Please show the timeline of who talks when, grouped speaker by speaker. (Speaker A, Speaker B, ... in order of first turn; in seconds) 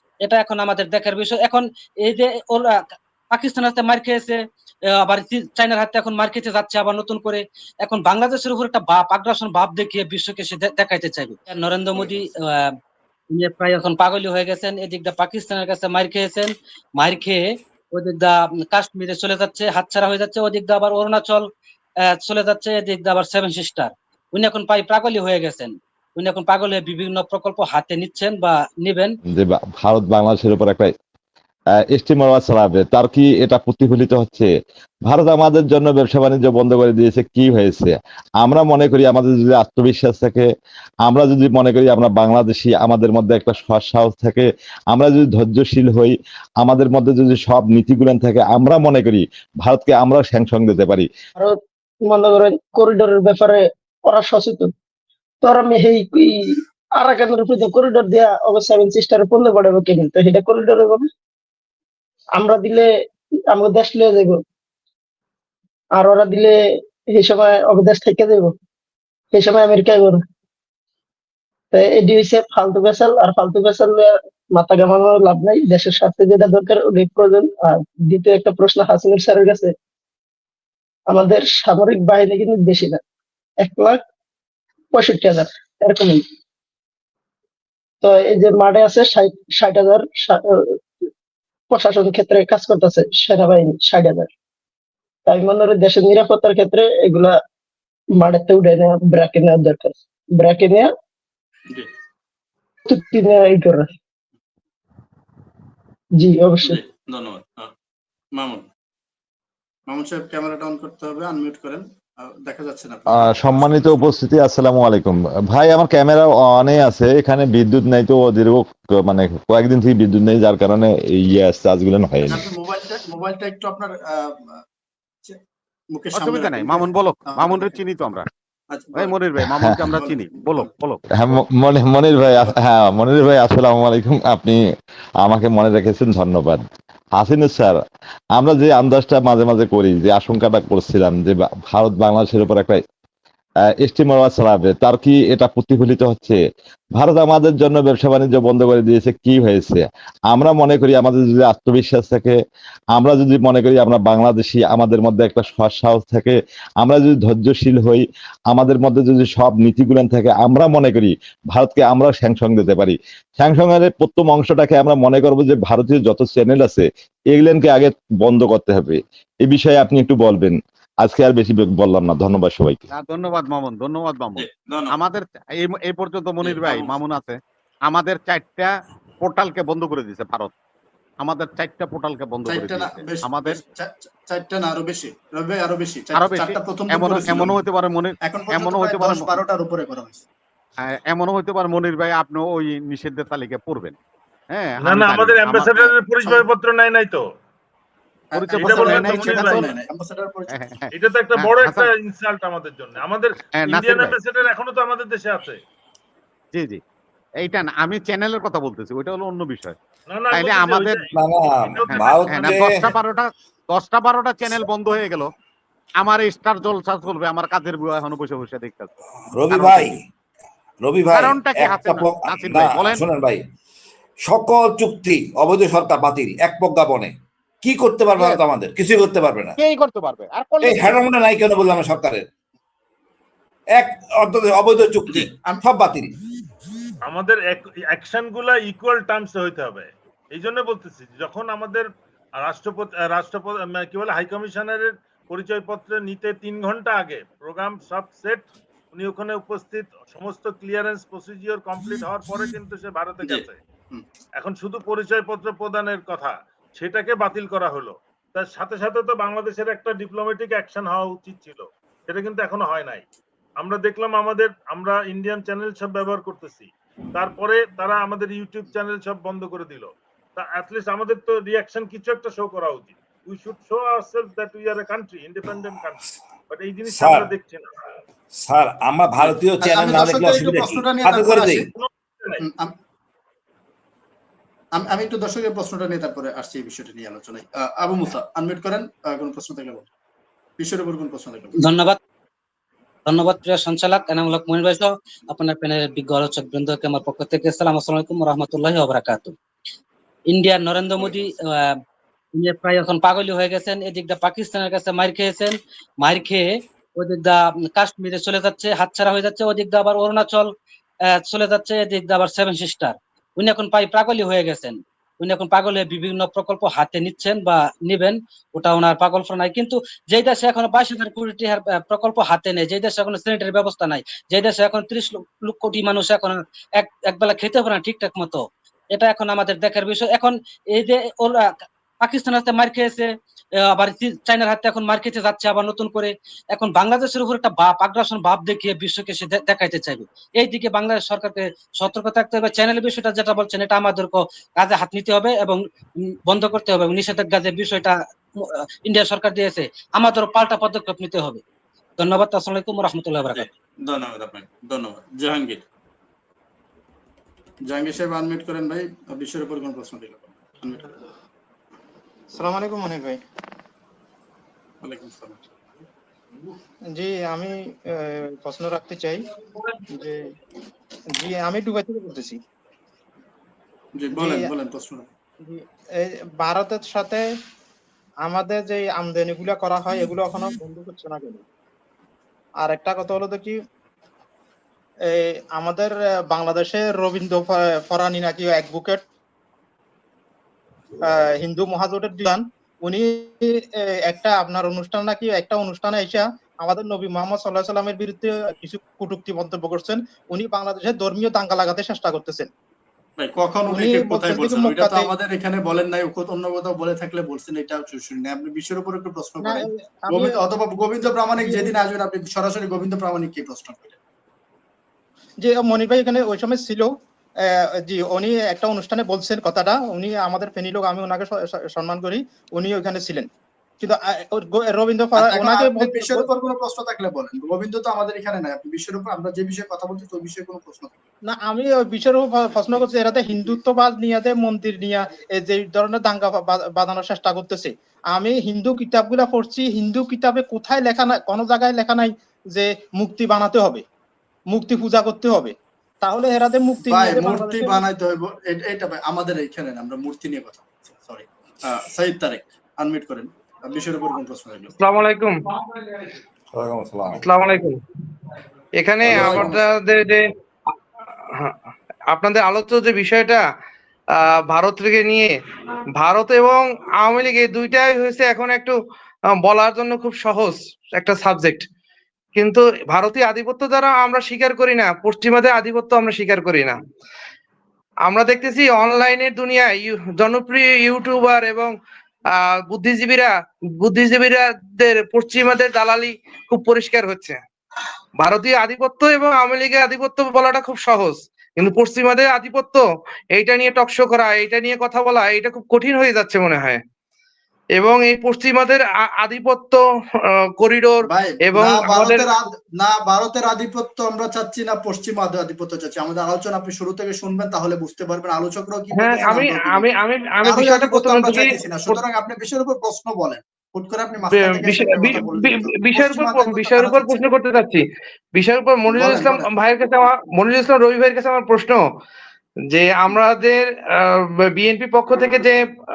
Speaker A: 0.2-4.4, 5.0-12.7, 13.3-21.5, 22.2-29.1, 291.6-292.0, 293.1-299.3, 300.3-301.7, 302.4-310.5, 311.2-328.4, 328.9-333.1, 333.7-345.6, 346.3-351.4, 352.0-353.5
Speaker B: 29.3-30.9, 31.8-34.5, 35.0-40.5, 41.0-51.1, 113.2-122.4, 129.4-129.8, 131.1-134.6, 135.2-136.6, 137.2-137.8, 138.3-142.8, 143.8-146.4, 146.9-152.4, 152.9-172.8
Speaker C: 51.4-54.7, 55.4-61.1, 62.4-62.9, 63.5-64.4, 65.9-66.6, 67.1-68.5, 69.3-70.2, 71.7-79.7, 81.1-83.0, 83.6-84.0, 84.9-86.2, 88.0-90.8, 91.7-94.3, 95.2-97.3, 98.2-100.9, 102.9-103.9, 106.2-106.8
Speaker D: 106.6-107.7, 108.3-108.7, 109.9-113.9, 122.2-124.6, 125.9-127.9, 128.7-129.2, 129.8-130.7, 174.4-175.0, 176.4-177.0, 182.4-187.6, 188.2-190.2, 198.3-200.5, 235.1-235.6, 253.2-254.1, 279.2-281.7, 282.4-282.7, 284.7-289.9, 290.6-291.6, 353.3-355.6, 357.7-360.9, 364.8-365.4, 374.0-375.1, 403.2-414.0, 425.2-431.0, 446.9-454.7, 459.0-459.7, 501.1-509.9, 510.4-517.2, 518.9-519.5
Speaker E: 126.2-128.3, 128.9-131.0, 172.9-180.5, 181.2-183.6, 186.1-189.3, 190.8-193.9, 194.5-195.9, 198.3-199.7, 200.5-201.9, 203.6-204.2, 206.5-206.8, 207.4-209.8, 210.3-211.2, 211.8-215.3, 216.0-218.9, 219.5-220.0, 221.0-223.1, 228.1-228.4, 229.6-231.0, 456.8-457.1
Speaker F: 194.8-197.2, 198.5-199.7, 200.9-205.6, 210.1-212.9, 237.1-253.6, 254.4-263.0, 263.6-277.7, 281.7-282.4
Speaker G: 219.5-219.9, 221.1-223.4, 224.3-227.1, 227.6-229.5, 230.6-232.1, 233.8-236.1, 276.9-277.2, 278.5-281.6
Speaker H: 362.3-363.2, 366.9-367.5, 368.1-369.2, 369.9-370.2, 371.1-372.4, 374.1-374.5, 375.4-377.2, 378.2-381.4, 382.6-383.6, 385.2-389.0, 391.1-393.5, 394.0-402.5, 403.7-405.1, 409.4-410.3, 411.4-411.7, 415.4-416.9, 417.8-423.3, 423.8-426.3, 431.3-443.8, 444.5-447.8
Speaker I: 454.8-456.1, 457.1-457.8, 458.8-460.2, 462.1-463.4, 464.5-465.3, 466.0-468.8, 469.4-471.6, 472.4-476.8, 478.1-481.7, 482.4-483.3, 483.8-487.4, 488.2-492.8, 493.4-496.8, 497.8-499.8, 500.6-502.4, 508.9-512.0, 514.3-517.8, 518.3-521.8, 522.7-523.7, 524.5-525.6